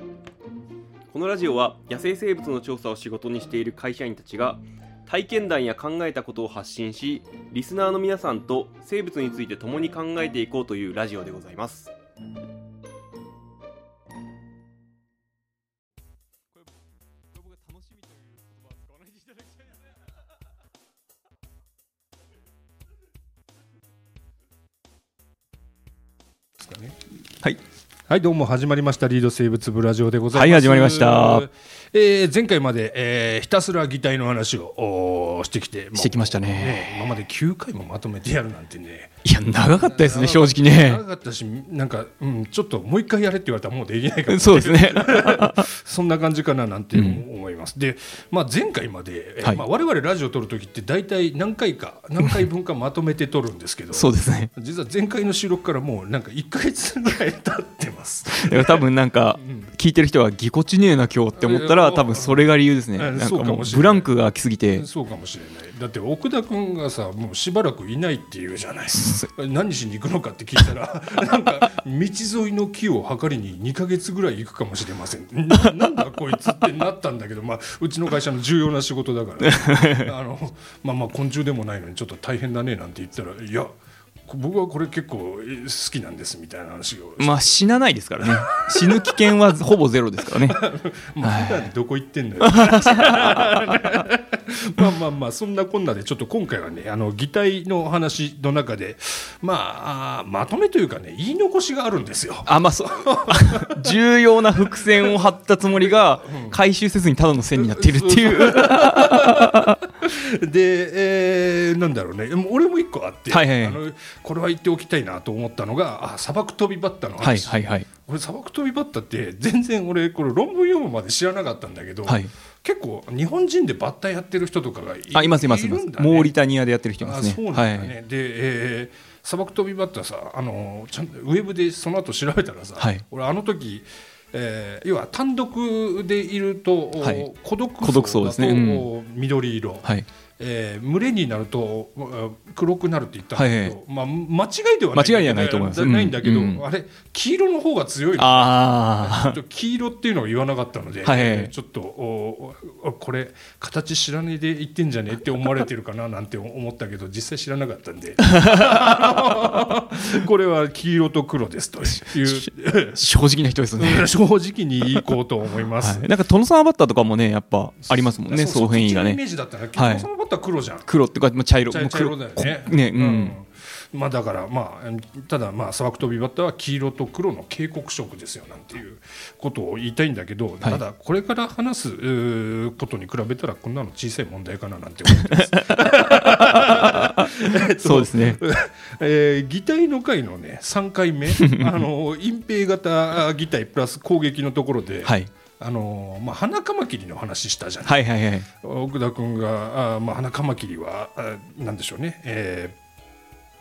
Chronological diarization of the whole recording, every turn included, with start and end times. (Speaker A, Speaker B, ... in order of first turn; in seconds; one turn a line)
Speaker A: 1.1-11.9
Speaker B: 9.6-10.0
Speaker B: 11.0-11.3
Speaker B: 17.3-19.6
Speaker C: 26.6-27.0
Speaker C: 28.1-39.2
Speaker B: 30.3-31.5
Speaker B: 35.9-36.9
Speaker B: 39.2-41.0
Speaker C: 39.8-59.7
Speaker B: 44.3-45.7
Speaker B: 46.9-47.2
Speaker B: 53.9-54.5
Speaker B: 58.3-64.8
Speaker C: 61.4-64.1
Speaker C: 64.7-83.7
Speaker B: 69.0-69.3
Speaker B: 79.4-80.1
Speaker C: 84.3-87.6
Speaker B: 87.2-90.6
Speaker C: 88.2-89.3
Speaker C: 90.4-103.9
Speaker B: 91.2-91.7
Speaker B: 92.4-93.9
Speaker B: 102.5-109.8
Speaker C: 105.8-106.6
Speaker C: 107.5-126.3
Speaker B: 113.3-113.8
Speaker B: 117.2-117.9
Speaker B: 122.0-122.3
Speaker B: 125.1-127.9
Speaker C: 127.0-163.0
Speaker B: 137.0-137.3
Speaker B: 137.8-138.9
Speaker B: 143.3-143.8
Speaker B: 144.9-146.6
Speaker B: 148.2-149.4
Speaker B: 151.0-151.5
Speaker B: 158.2-158.8
Speaker B: 162.1-164.1
Speaker C: 163.8-166.1
Speaker B: 165.8-169.2
Speaker C: 167.8-170.9
Speaker B: 169.7-170.1
Speaker B: 170.8-173.3
Speaker C: 171.7-202.8
Speaker B: 185.8-188.4
Speaker B: 191.3-191.8
Speaker B: 195.0-195.3
Speaker B: 197.8-198.5